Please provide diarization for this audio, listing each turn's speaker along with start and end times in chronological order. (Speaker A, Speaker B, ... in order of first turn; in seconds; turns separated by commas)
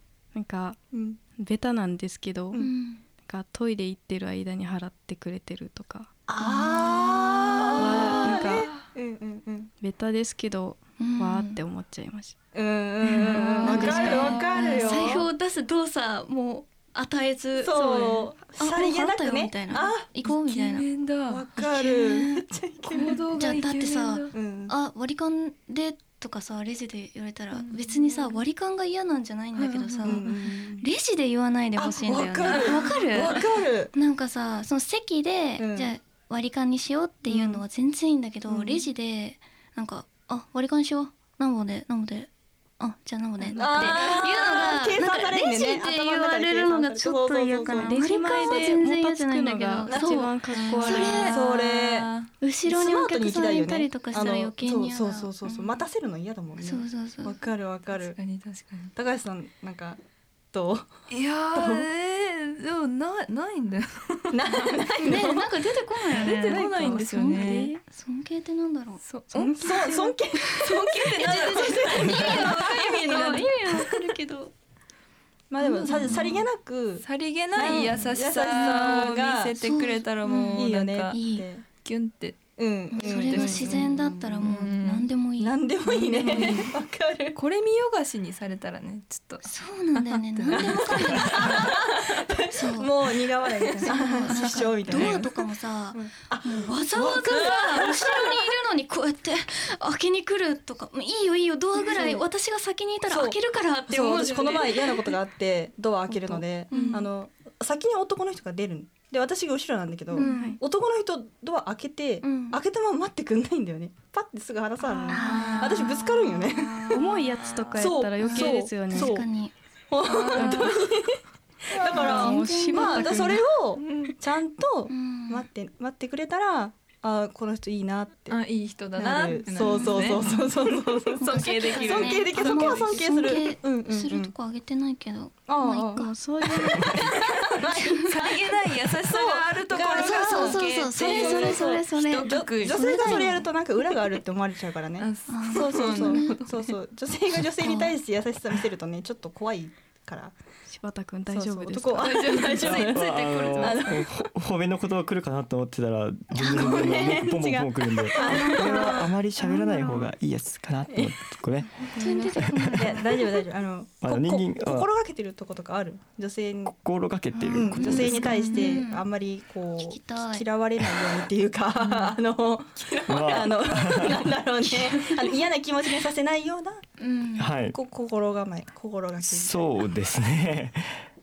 Speaker A: 0.3-0.8, Speaker B: 0.9-1.2, Speaker A: 1.4-2.6, Speaker C: 2.6-3.0, Speaker A: 3.2-6.1, Speaker B: 6.3-9.7, Speaker C: 6.4-8.4, Speaker A: 7.8-8.7, Speaker D: 8.4-8.8, Speaker A: 9.8-12.3, Speaker C: 11.0-11.6, Speaker B: 12.5-15.2, Speaker C: 13.1-20.9, Speaker A: 13.3-14.4, Speaker D: 13.8-14.9, Speaker B: 17.6-20.1, Speaker D: 20.2-21.4, Speaker B: 21.3-23.2, Speaker C: 21.6-22.4, Speaker D: 22.9-24.3, Speaker C: 23.3-33.4, Speaker B: 24.3-24.7, Speaker D: 27.5-28.4, Speaker D: 29.6-30.3, Speaker B: 30.1-30.9, Speaker B: 31.8-33.9, Speaker D: 32.4-33.4, Speaker C: 33.9-51.5, Speaker B: 35.6-35.9, Speaker B: 37.2-37.6, Speaker B: 38.5-38.9, Speaker B: 43.5-48.8, Speaker A: 47.8-51.4, Speaker B: 49.9-50.3, Speaker D: 50.6-52.3, Speaker B: 50.9-58.2, Speaker C: 52.4-55.8, Speaker C: 56.6-57.4, Speaker D: 57.9-58.9, Speaker B: 58.9-60.0, Speaker B: 60.5-60.9, Speaker D: 61.1-64.9, Speaker B: 61.5-61.9, Speaker B: 64.3-65.5, Speaker C: 65.0-69.0, Speaker D: 66.1-67.7, Speaker B: 66.5-67.7, Speaker A: 67.4-67.8, Speaker D: 69.0-70.0, Speaker A: 69.3-69.9, Speaker B: 69.5-73.4, Speaker D: 70.6-74.1, Speaker C: 71.2-74.5, Speaker B: 75.5-79.5, Speaker C: 75.6-76.5, Speaker D: 75.9-76.3, Speaker D: 77.0-81.2, Speaker C: 79.6-81.5, Speaker B: 80.6-81.6, Speaker D: 81.8-82.4, Speaker B: 82.6-84.4, Speaker C: 82.9-86.7, Speaker D: 83.0-85.1, Speaker B: 85.4-87.4, Speaker D: 86.3-86.7, Speaker D: 87.3-92.2, Speaker C: 89.4-91.9, Speaker B: 90.5-98.5, Speaker C: 92.5-92.9, Speaker D: 93.7-95.1, Speaker C: 93.8-105.1, Speaker B: 101.8-102.2, Speaker B: 103.1-117.0, Speaker D: 104.1-104.7, Speaker C: 106.1-107.1, Speaker A: 106.7-107.0, Speaker C: 110.1-110.6, Speaker A: 110.2-110.6, Speaker C: 112.2-112.6, Speaker A: 114.8-115.8, Speaker C: 115.1-116.5, Speaker D: 116.5-117.9, Speaker A: 116.9-119.2, Speaker B: 117.8-119.3, Speaker C: 118.2-119.5, Speaker B: 119.9-121.2, Speaker D: 120.0-120.8, Speaker A: 120.3-120.8, Speaker B: 121.7-128.4, Speaker D: 121.8-122.3, Speaker C: 121.9-123.3, Speaker A: 121.9-123.4, Speaker D: 123.8-124.2, Speaker C: 124.9-125.5, Speaker D: 128.3-130.4, Speaker B: 129.0-134.3, Speaker C: 129.6-130.3, Speaker D: 131.1-132.9, Speaker C: 131.2-136.1, Speaker B: 135.5-150.3, Speaker A: 136.0-137.0, Speaker C: 137.8-138.1, Speaker D: 138.1-143.4, Speaker C: 139.9-143.5, Speaker D: 145.0-146.7, Speaker C: 145.3-146.4, Speaker C: 147.6-147.9, Speaker A: 150.7-152.6, Speaker B: 151.3-154.1, Speaker D: 152.0-154.1, Speaker E: 152.6-161.8, Speaker C: 156.3-157.1, Speaker B: 156.4-159.2, Speaker C: 161.9-163.4, Speaker A: 162.0-162.7, Speaker B: 162.7-166.8, Speaker E: 164.0-164.9, Speaker E: 166.8-168.3, Speaker C: 167.3-169.0, Speaker B: 167.5-176.8, Speaker D: 168.2-168.8, Speaker C: 169.8-170.4, Speaker D: 171.8-172.1, Speaker E: 173.1-174.3, Speaker C: 174.7-175.3, Speaker C: 177.0-177.5, Speaker E: 177.4-177.7, Speaker B: 177.7-179.8, Speaker E: 179.2-181.0